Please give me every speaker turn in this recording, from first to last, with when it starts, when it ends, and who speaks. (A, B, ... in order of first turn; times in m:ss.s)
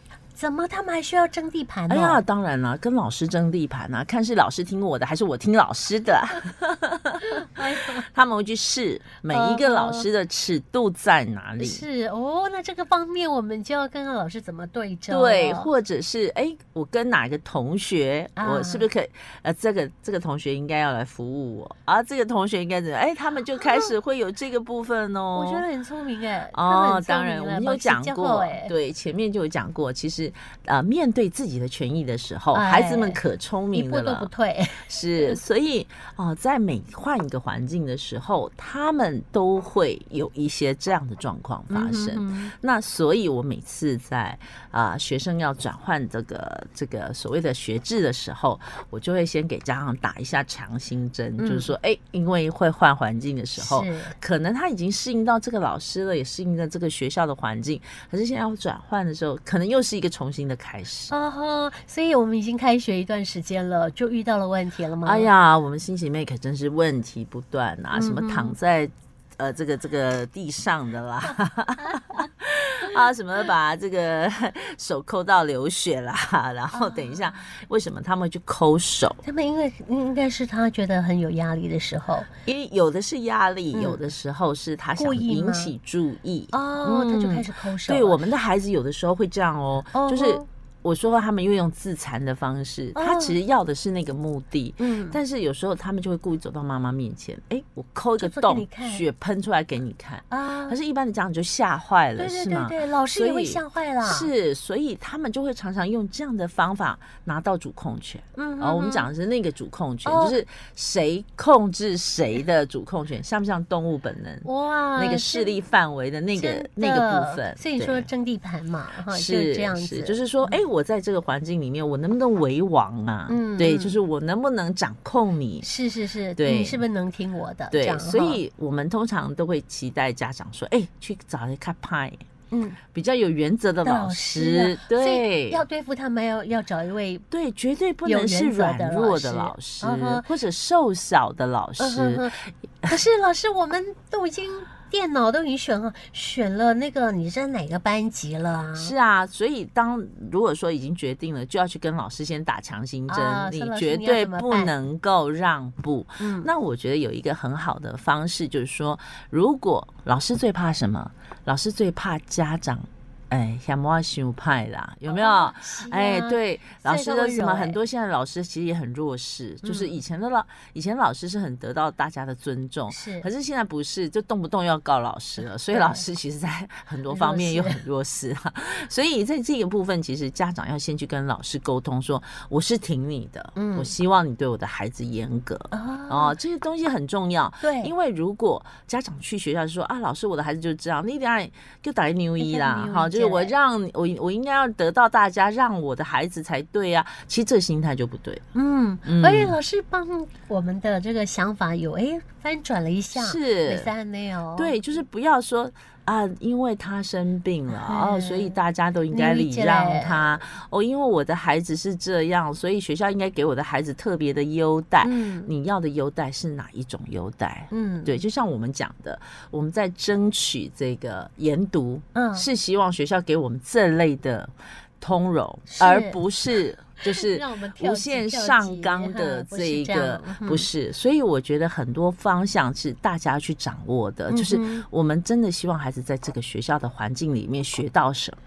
0:00.4-0:02.2 A
0:01.9-0:11.8 B
0:07.3-0:08.0 A
0:09.3-0:10.1 A
0:11.6-0:15.7 A
0:15.1-0:25.6 B
0:18.4-0:18.9 A
0:23.6-0:23.9 A
0:25.3-0:28.7 A
0:26.5-0:34.3 B
0:32.5-0:35.4 A
0:34.8-1:01.1 B
0:41.7-0:42.5 A
0:51.4-0:51.7 A
0:53.6-0:54.2 A
1:01.1-1:05.3 A
1:05.0-1:19.2 B
1:07.9-1:08.5 A
1:16.7-1:17.4 A
1:19.2-1:22.3 A
1:22.4-1:58.1 B
1:23.7-1:24.0 A
1:25.0-1:25.7 A
1:26.5-1:28.2 A
1:29.9-1:30.4 A
1:32.9-1:33.4 A
1:34.8-1:35.2 A
1:38.2-1:39.0 A
1:40.3-1:40.8 A
1:42.2-1:44.3 A
1:48.4-1:49.1 A
1:50.0-1:50.4 A
1:54.4-1:55.5 A
1:56.3-2:00.6 A
1:59.1-2:05.7 B
2:03.3-2:04.0 A
2:05.6-2:08.4 A
2:06.4-2:06.8 B
2:07.7-2:12.2 B
2:12.5-2:12.8 A
2:12.9-2:15.6 B
2:13.8-2:17.2 A
2:17.3-2:22.9 B
2:18.0-2:20.3 A
2:21.8-2:28.9 A
2:28.7-3:18.4 B
2:33.1-2:34.7 A
2:36.2-2:36.5 A
2:45.1-2:47.8 A
2:49.6-2:49.9 A
2:52.9-2:53.3 A
2:55.7-2:56.0 A
2:57.1-2:57.8 A
3:03.5-3:03.9 A
3:05.7-3:06.4 A
3:07.6-3:07.9 A
3:12.4-3:13.5 A
3:18.5-3:24.7 A
3:19.0-3:19.6 B
3:23.1-3:23.9 B
3:24.6-3:58.4 B
3:27.7-3:28.6 A
3:29.1-3:30.4 A
3:35.0-3:35.5 A
3:37.7-3:38.2 A
3:42.1-3:42.5 A
3:45.7-3:46.2 A
3:47.0-3:50.7 A
3:54.3-3:54.8 A